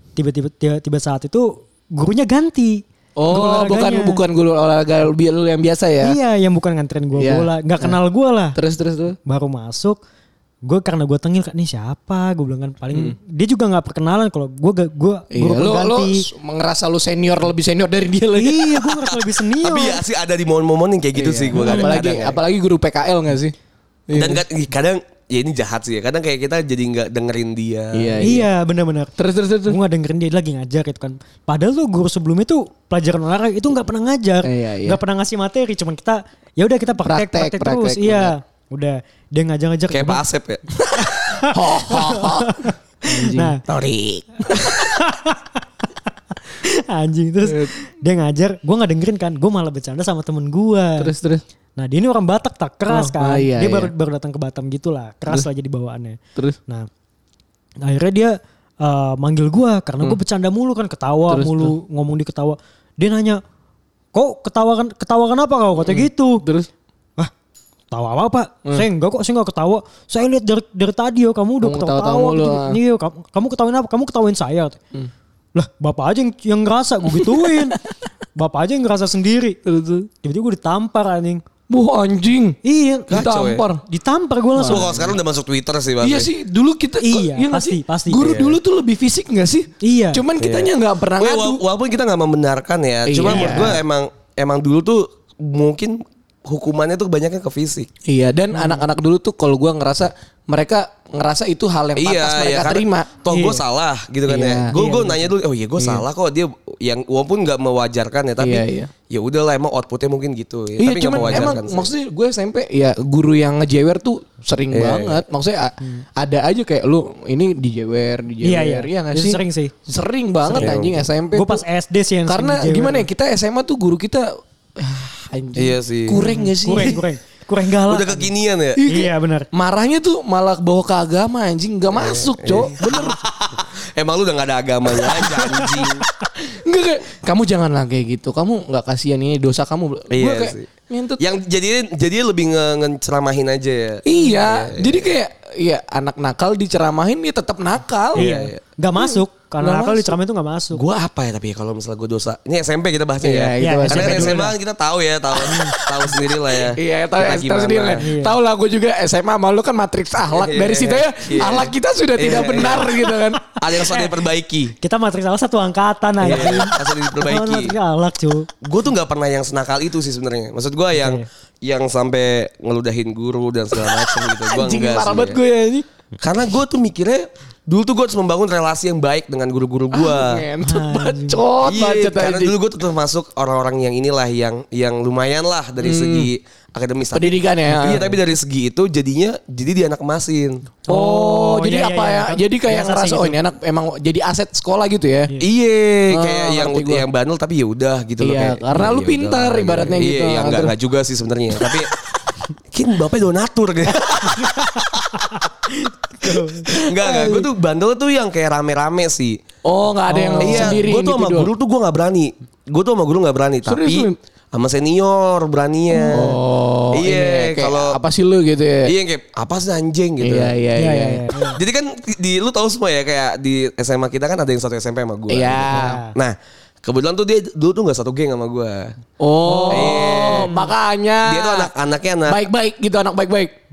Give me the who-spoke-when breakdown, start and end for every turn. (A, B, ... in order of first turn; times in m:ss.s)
0:00.2-0:04.2 A
0:03.2-0:06.2 B
0:06.0-0:08.6 A
0:07.2-0:08.0 B
0:08.6-0:09.2 B
0:09.3-0:10.0 A
0:10.6-0:16.2 A
0:15.3-0:19.0 B
0:18.4-0:20.0 A
0:19.6-0:22.4 C
0:21.1-0:23.5 B
0:21.6-0:22.0 A
0:24.1-0:24.4 B
0:24.1-0:28.2 C
0:27.9-0:28.5 B
0:28.2-0:29.1 A
0:29.2-0:29.8 B
0:29.6-0:40.2 A
0:34.4-0:35.0 B
0:37.0-0:38.3 B
0:39.9-0:40.6 C
0:40.9-0:44.7 B
0:41.0-0:43.6 A
0:44.5-0:45.6 A
0:46.5-0:51.1 A
0:47.4-0:47.7 B
0:51.0-0:51.4 B
0:51.8-0:56.9 A
0:52.9-0:53.9 B
0:57.8-1:03.4 A
1:01.3-1:01.8 B
1:04.1-1:06.5 A
1:05.8-1:06.7 B
1:07.9-1:14.8 A
1:11.6-1:12.8 B
1:15.6-1:17.8 A
1:17.0-1:17.8 B
1:18.4-1:19.6 A
1:19.6-1:20.1 B
1:20.2-1:21.4 A
1:21.7-1:23.8 B
1:22.6-1:23.2 A
1:23.1-1:23.6 C
1:23.8-1:25.2 A
1:24.6-1:24.9 B
1:24.7-1:26.3 C
1:26.0-1:31.6 B
1:27.0-1:28.3 A
1:28.2-1:28.6 C
1:29.8-1:30.2 A
1:30.4-1:37.9 C
1:33.1-1:33.8 B
1:33.3-1:33.8 A
1:38.0-1:43.1 B
1:38.5-1:38.8 A
1:42.0-1:51.9 C
1:43.3-1:43.6 A
1:44.3-1:44.7 B
1:44.7-1:45.3 A
1:45.8-1:46.0 B
1:48.4-1:48.9 B
1:50.8-2:01.6 B
1:54.7-1:55.2 C
1:58.4-1:59.7 A
2:00.4-2:00.7 A
2:00.6-2:01.0 C
2:01.3-2:03.1 A
2:02.3-2:07.0 B
2:05.6-2:06.2 C
2:06.2-2:08.3 A
2:07.9-2:08.8 C
2:08.8-2:13.2 B
2:08.8-2:09.5 A
2:11.9-2:16.1 C
2:14.9-2:21.2 B
2:20.1-2:25.1 C
2:24.0-2:28.3 B
2:28.2-2:28.6 C
2:28.2-2:30.8 A
2:29.0-2:30.2 B
2:30.7-2:38.0 C
2:33.2-2:34.5 B
2:33.6-2:34.5 A
2:35.4-2:35.8 A
2:36.6-2:43.4 B
2:38.0-2:38.4 A
2:40.3-2:42.9 C
2:43.5-2:44.2 A
2:43.6-2:44.8 C
2:44.8-2:48.5 A
2:46.2-2:47.8 C
2:48.6-2:55.4 C
2:51.0-2:51.3 A
2:53.8-2:55.9 B
2:56.2-3:00.4 C
2:59.9-3:02.5 B
3:00.6-3:01.4 A
3:01.6-3:10.6 C
3:05.8-3:06.3 B
3:07.1-3:08.1 B
3:10.9-3:13.4 A
3:10.9-3:15.3 B
3:15.4-3:21.9 C
3:16.1-3:17.0 B
3:18.2-3:20.7 B
3:22.7-3:25.1 C
3:24.4-3:27.4 A
3:26.7-3:29.4 C
3:29.6-3:31.5 B
3:30.1-3:30.8 A
3:30.4-3:36.4 C
3:33.7-3:34.2 B
3:36.1-3:38.9 B
3:36.9-3:38.0 C
3:38.9-3:40.5 C
3:40.2-3:41.3 B
3:40.8-3:41.6 A
3:41.6-3:48.9 C
3:45.3-3:46.0 B
3:45.7-3:46.1 A
3:49.2-3:51.7 B
3:49.4-3:50.7 A
3:49.7-3:50.5 C
3:51.2-3:52.4 C
3:52.3-3:53.6 B